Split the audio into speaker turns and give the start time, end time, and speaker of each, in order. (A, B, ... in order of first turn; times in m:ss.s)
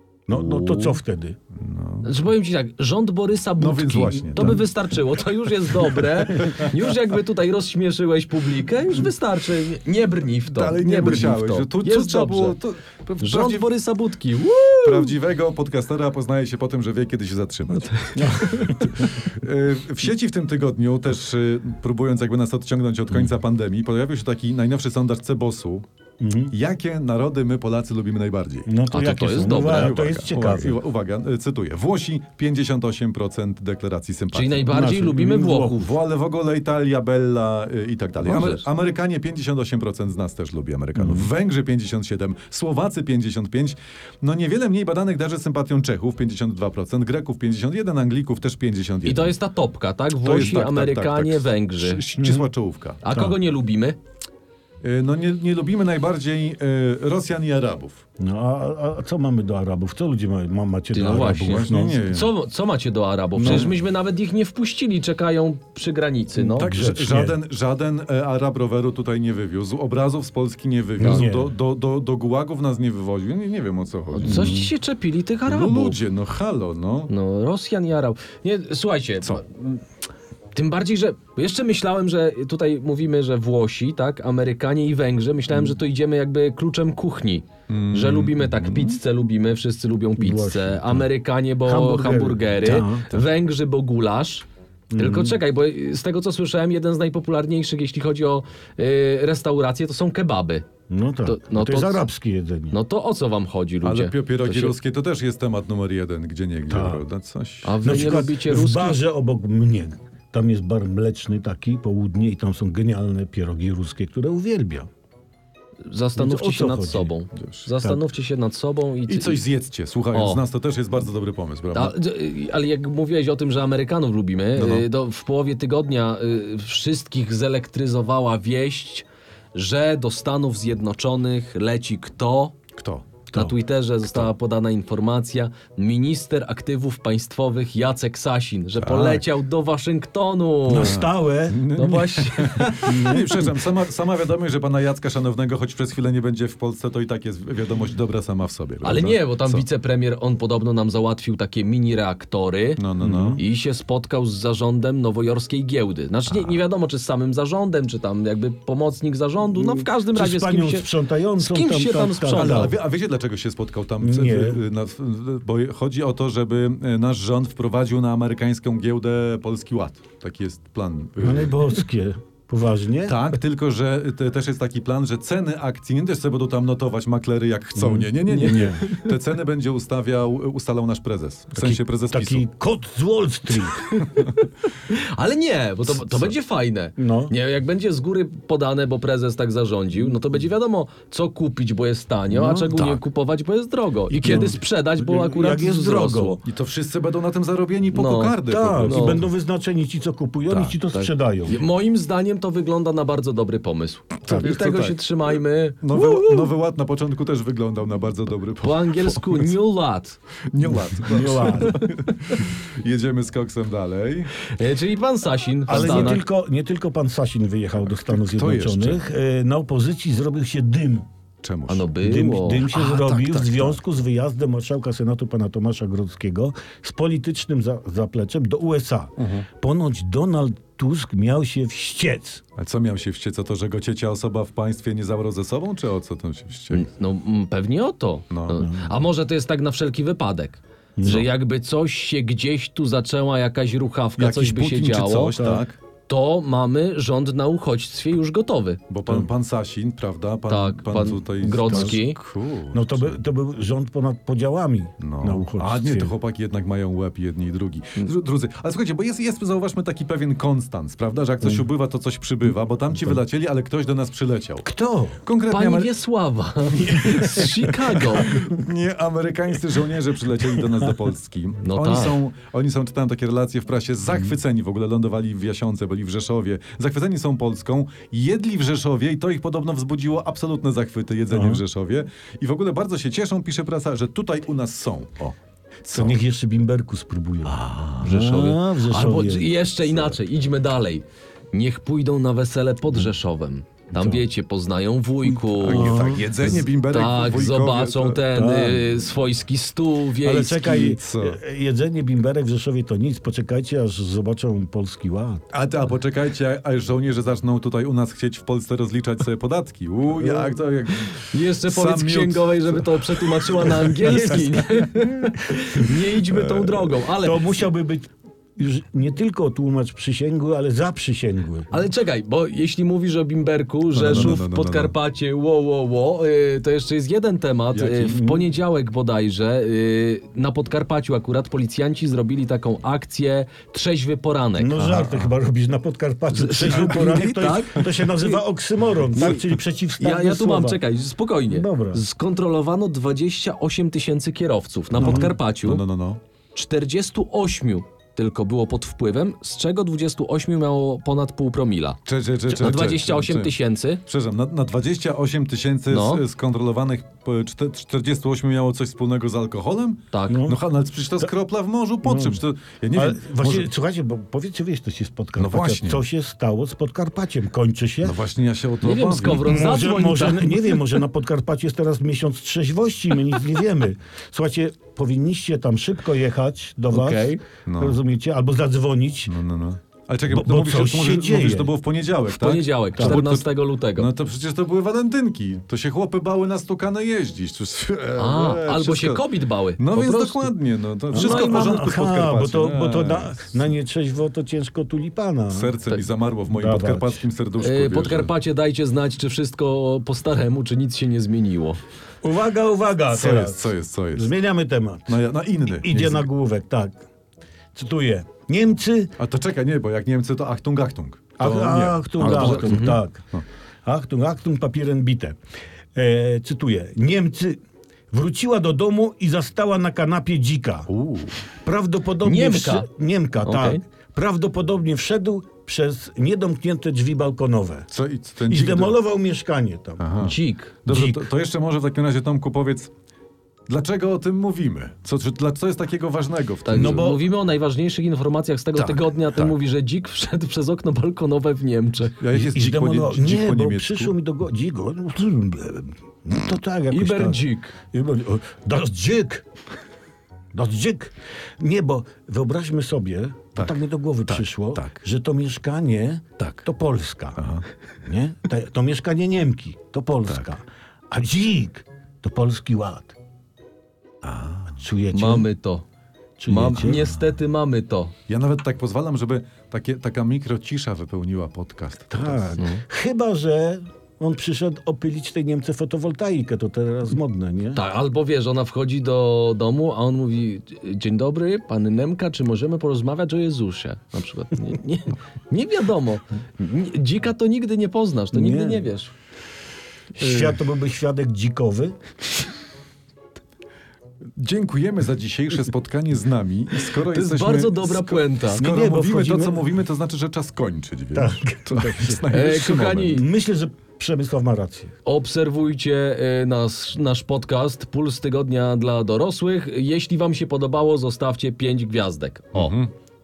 0:00.3-0:01.4 A
0:00.3-0:01.0 B
0:01.6-0:02.2 C
0:02.0-0:12.6 B
0:03.6-0:04.6 C
0:10.4-0:13.7 C
0:13.2-0:15.1 B
0:14.8-0:25.8 C
0:17.8-0:18.9 B
0:18.2-0:18.9 A
0:26.2-0:26.5 A
0:26.5-0:28.7 C
0:28.6-0:30.8 A
0:28.9-0:30.0 B
0:29.5-0:34.8 C
0:34.3-0:35.9 B
0:34.7-0:35.8 A
0:35.8-0:49.3 C
0:38.2-0:38.6 B
0:41.0-0:41.3 A
0:49.0-0:52.0 B
0:50.2-0:53.0 C
0:52.2-0:52.5 A
0:53.0-0:54.0 B
0:53.1-0:53.4 A
0:54.8-0:58.0 C
0:58.2-1:02.0 A
1:00.9-1:06.7 B
1:01.0-1:02.3 C
1:03.4-1:03.7 A
1:03.4-1:03.7 C
1:06.4-1:07.4 A
1:06.6-1:14.5 C
1:11.0-1:11.5 A
1:14.1-1:16.0 B
1:14.2-1:14.7 A
1:15.5-1:17.1 C
1:17.1-1:19.8 B
1:20.5-1:34.4 B
1:27.7-1:29.0 C
1:30.2-1:31.1 A
1:31.6-1:33.0 A
1:32.6-1:33.3 C
1:34.9-1:35.4 A
1:35.0-1:40.6 B
1:40.9-1:42.8 A
1:41.2-1:42.0 B
1:42.7-1:44.8 B
1:43.8-1:48.3 C
1:46.7-1:47.0 A
1:47.6-1:49.0 B
1:47.8-1:54.9 A
1:55.8-1:59.4 B
1:56.2-1:57.1 A
1:57.4-1:57.7 C
1:59.1-2:02.0 C
2:00.1-2:00.4 B
2:01.7-2:12.6 B
2:04.6-2:04.8 C
2:12.8-2:13.3 C
2:13.3-2:21.0 B
2:18.8-2:19.2 C
2:20.7-2:21.6 A
2:20.7-2:29.6 C
2:21.7-2:23.2 B
2:22.8-2:23.4 A
2:28.8-2:32.8 B
2:32.8-2:33.4 C
2:33.0-2:33.4 A
2:33.4-2:42.7 B
2:36.3-2:36.6 C
2:39.5-2:42.8 A
2:42.3-2:51.7 C
2:44.0-2:44.6 A
2:51.2-2:53.2 A
2:53.0-3:02.4 C
2:57.8-2:58.8 A
2:58.3-2:59.1 B
3:01.5-3:03.8 A
3:03.7-3:16.4 B
3:05.9-3:06.3 C
3:07.0-3:07.3 A
3:12.3-3:12.7 A
3:12.7-3:13.0 C
3:14.1-3:14.6 C
3:14.2-3:16.4 A
3:16.4-3:19.3 C
3:17.9-3:19.2 B
3:18.4-3:21.6 A
3:20.5-3:20.8 C
3:21.0-3:26.5 B
3:24.2-3:25.0 C
3:25.8-3:29.5 C
3:28.6-3:30.2 B
3:30.5-3:34.3 C
3:30.9-3:31.8 A
3:34.5-3:36.2 B
3:35.7-3:41.0 A
3:35.7-3:36.2 C
3:37.8-3:39.0 C
3:41.4-3:41.8 C
3:41.7-3:42.7 B
3:42.0-3:52.4 A
3:42.7-3:43.8 C
3:49.2-3:49.5 C
3:52.6-3:56.9 C
3:56.7-4:05.4 B
3:58.3-3:58.7 C
3:58.6-3:58.9 A
4:01.0-4:01.3 A
4:04.2-4:05.8 C
4:05.3-4:05.6 A
4:06.1-4:08.8 B
4:08.9-4:13.2 C
4:10.5-4:12.2 B
4:11.5-4:12.0 A
4:12.7-4:16.1 A
4:15.0-4:24.7 C
4:24.6-4:25.2 A
4:25.2-4:25.9 C
4:25.5-4:28.4 B
4:26.7-4:46.2 C
4:31.6-4:32.2 B
4:41.3-4:41.6 A
4:45.9-4:49.5 A
4:47.4-4:48.2 C
4:48.0-5:00.9 B
4:49.8-4:50.2 C
4:53.9-4:54.2 A
4:55.5-4:58.2 C
4:55.7-4:56.2 A
4:58.3-4:58.9 A
5:00.2-5:05.4 A
5:00.6-5:01.4 C
5:05.5-5:14.6 C
5:10.2-5:10.6 A
5:11.3-5:17.6 B
5:16.2-5:17.0 C
5:17.2-5:21.7 A
5:21.7-5:35.1 B
5:24.0-5:24.9 C
5:24.0-5:24.4 A
5:27.7-5:28.1 C
5:28.0-5:28.5 A
5:34.6-5:40.8 A
5:36.3-5:38.4 B
5:36.6-5:37.2 C
5:39.1-5:39.4 B
5:40.0-5:45.8 B
5:41.5-5:42.0 A
5:45.0-5:45.4 A
5:45.0-5:46.2 C
5:46.5-5:54.0 B
5:52.0-5:53.5 C
5:54.0-6:03.7 C
5:55.9-5:56.2 B
6:00.1-6:00.5 B
6:00.3-6:00.6 A
6:02.0-6:02.4 A
6:02.9-6:08.2 A
6:05.4-6:06.0 C
6:08.0-6:09.6 C
6:08.8-6:11.0 B
6:09.4-6:19.3 A
6:16.9-6:17.4 B
6:17.6-6:18.0 C
6:19.3-6:29.2 C
6:20.3-6:21.7 A
6:22.4-6:24.1 B
6:28.2-6:30.5 B
6:29.8-6:33.6 C
6:31.1-6:35.7 A
6:31.1-6:31.8 B
6:35.5-6:38.3 C
6:36.5-6:37.3 A
6:37.6-6:41.8 B
6:42.2-6:47.0 A
6:43.1-6:44.3 C
6:45.1-6:46.3 C
6:47.7-6:49.1 A
6:49.2-6:53.4 C
6:51.4-6:53.2 A
6:52.2-6:53.0 B
6:53.8-6:55.4 A
6:55.9-6:57.6 A
6:58.1-7:00.9 A
7:00.9-7:01.4 C
7:01.6-7:07.9 A
7:02.2-7:02.9 B
7:03.4-7:03.8 B
7:07.9-7:09.0 C
7:08.4-7:10.1 A
7:10.0-7:12.9 C
7:10.2-7:10.8 B
7:10.8-7:11.2 A
7:13.7-7:17.1 C
7:16.6-7:22.2 B
7:16.7-7:17.2 A
7:18.7-7:19.6 C
7:22.2-7:24.1 C
7:22.3-7:29.4 A
7:26.9-7:27.7 B
7:30.5-7:37.4 A
7:33.5-7:35.0 C
7:36.4-7:36.6 C
7:37.4-7:37.6 C
7:38.0-7:43.2 A
7:44.2-7:44.8 C
7:44.8-7:45.5 A
7:45.1-7:45.8 B
7:46.4-7:47.0 A
7:46.5-7:48.1 B
7:46.5-7:47.3 C
7:48.3-7:52.6 C
7:52.1-7:57.8 A
7:57.7-8:09.1 B
8:08.3-8:08.9 A
8:10.2-8:11.9 A
8:14.4-8:23.2 C
8:17.1-8:18.6 B
8:18.6-8:19.7 A
8:21.1-8:22.2 A
8:22.3-8:23.2 B
8:23.1-8:24.9 A
8:25.0-8:32.8 B
8:32.5-8:32.9 C